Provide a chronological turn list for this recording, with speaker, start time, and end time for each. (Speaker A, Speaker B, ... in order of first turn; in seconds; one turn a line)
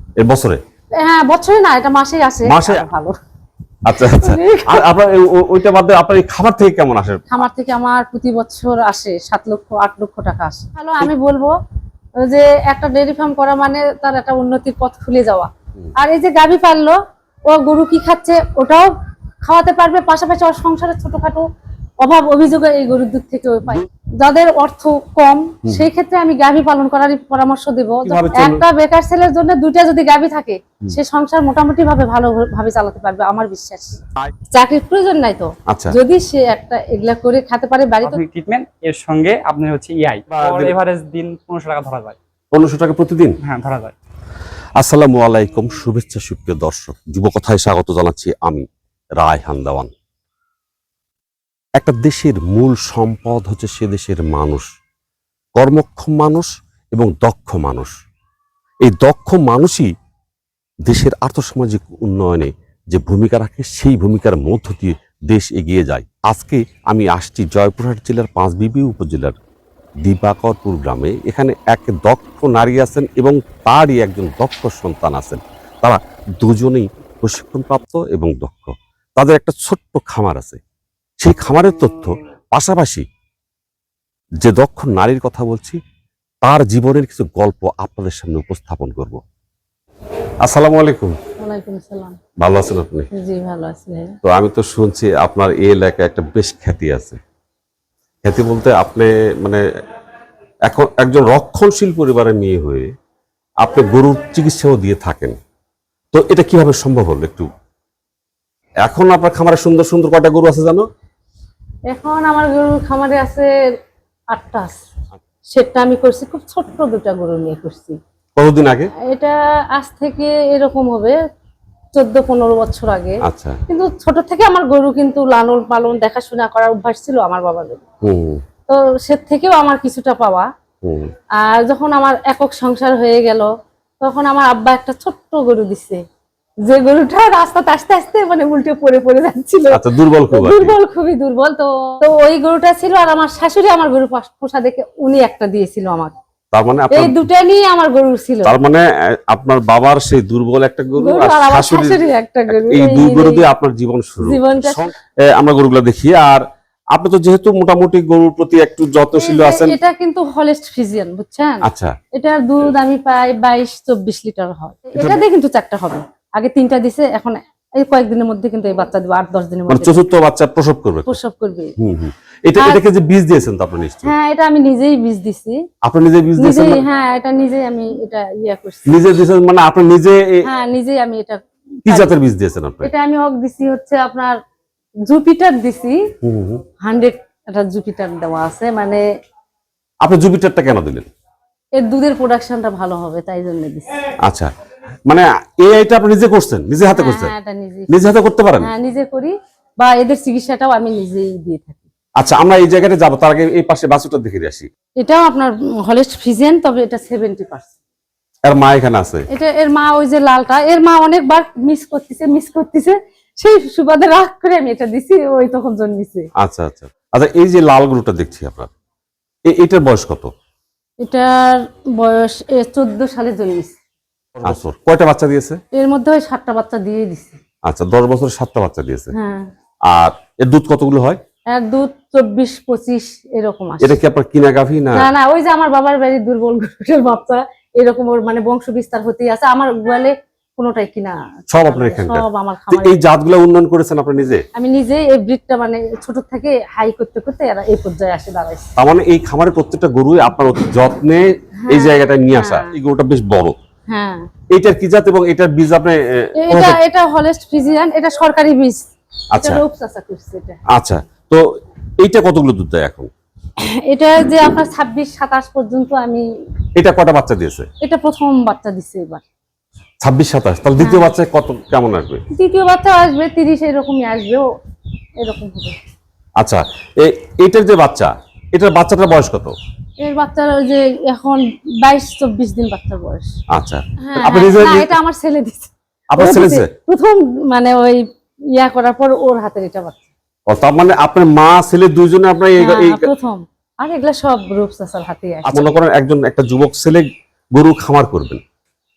Speaker A: 0.2-0.6
Speaker B: 1.0-3.1
Speaker A: 2.4-2.9
Speaker A: 3.8-7.2
Speaker B: 4.0-4.8
Speaker B: 7.3-11.5
Speaker B: 12.2-18.9
Speaker B: 19.4-21.4
Speaker B: 22.0-34.0
Speaker A: 28.0-28.6
Speaker B: 34.5-38.2
Speaker A: 35.7-36.0
Speaker C: 38.0-42.2
Speaker A: 40.3-40.8
Speaker A: 42.5-43.4
Speaker C: 43.4-43.9
Speaker A: 44.8-49.9
Speaker A: 51.8-54.7
Speaker A: 55.5-57.9
Speaker A: 58.8-59.9
Speaker A: 60.9-69.4
Speaker A: 70.0-80.6
Speaker A: 81.2-83.0
Speaker A: 84.4-85.8
Speaker A: 86.4-89.2
Speaker A: 90.4-91.2
Speaker B: 91.4-92.2
Speaker A: 92.4-93.1
Speaker B: 93.1-94.2
Speaker A: 94.2-97.2
Speaker A: 98.2-99.6
Speaker A: 100.6-102.9
Speaker A: 103.6-105.4
Speaker A: 106.1-107.5
Speaker A: 108.8-110.9
Speaker B: 111.9-113.5
Speaker B: 114.3-114.8
Speaker B: 115.5-118.0
Speaker A: 118.3-118.9
Speaker B: 119.0-121.2
Speaker B: 121.9-127.8
Speaker A: 123.2-123.6
Speaker A: 128.0-128.4
Speaker B: 128.7-130.5
Speaker A: 130.8-131.1
Speaker B: 131.3-133.5
Speaker B: 134.0-136.0
Speaker B: 136.7-146.1
Speaker A: 139.7-140.7
Speaker A: 146.5-147.2
Speaker B: 146.9-148.6
Speaker A: 148.4-159.8
Speaker B: 151.0-153.4
Speaker B: 154.2-154.9
Speaker B: 159.2-170.0
Speaker A: 161.6-162.0
Speaker A: 164.9-165.2
Speaker A: 169.7-171.2
Speaker B: 171.1-171.7
Speaker A: 171.8-174.1
Speaker B: 172.6-172.8
Speaker B: 174.0-175.6
Speaker A: 175.8-176.8
Speaker B: 176.4-179.0
Speaker A: 178.9-180.4
Speaker B: 180.4-182.1
Speaker A: 181.8-182.9
Speaker B: 182.8-184.4
Speaker B: 185.1-186.0
Speaker A: 186.2-186.6
Speaker B: 186.8-189.0
Speaker A: 190.0-191.1
Speaker B: 191.8-193.9
Speaker A: 194.2-194.5
Speaker A: 195.1-197.3
Speaker B: 196.9-197.9
Speaker A: 197.9-198.7
Speaker B: 198.6-201.8
Speaker A: 202.2-204.7
Speaker B: 205.0-207.7
Speaker A: 208.4-209.3
Speaker B: 209.3-216.3
Speaker A: 216.4-218.7
Speaker A: 219.4-220.3
Speaker B: 221.0-223.8
Speaker A: 224.4-225.6
Speaker B: 225.7-227.4
Speaker A: 227.6-229.1
Speaker B: 229.1-229.5
Speaker A: 229.8-231.2
Speaker B: 231.5-234.0
Speaker A: 233.8-235.1
Speaker B: 234.9-243.0
Speaker A: 241.5-244.4
Speaker B: 244.5-248.7
Speaker A: 248.8-253.6
Speaker B: 251.6-252.7
Speaker B: 253.9-254.3
Speaker A: 254.5-256.8
Speaker B: 256.4-258.9
Speaker A: 259.3-259.6
Speaker B: 259.4-260.6
Speaker A: 260.7-261.5
Speaker A: 262.0-263.1
Speaker B: 263.6-266.2
Speaker A: 266.8-267.7
Speaker B: 267.8-269.2
Speaker A: 270.0-272.2
Speaker B: 270.8-271.1
Speaker B: 272.3-274.4
Speaker B: 275.2-275.8
Speaker A: 276.4-279.5
Speaker B: 280.0-283.3
Speaker A: 283.5-285.0
Speaker B: 284.0-290.1
Speaker A: 286.1-286.7
Speaker A: 290.5-293.0
Speaker B: 292.6-295.7
Speaker A: 295.4-298.4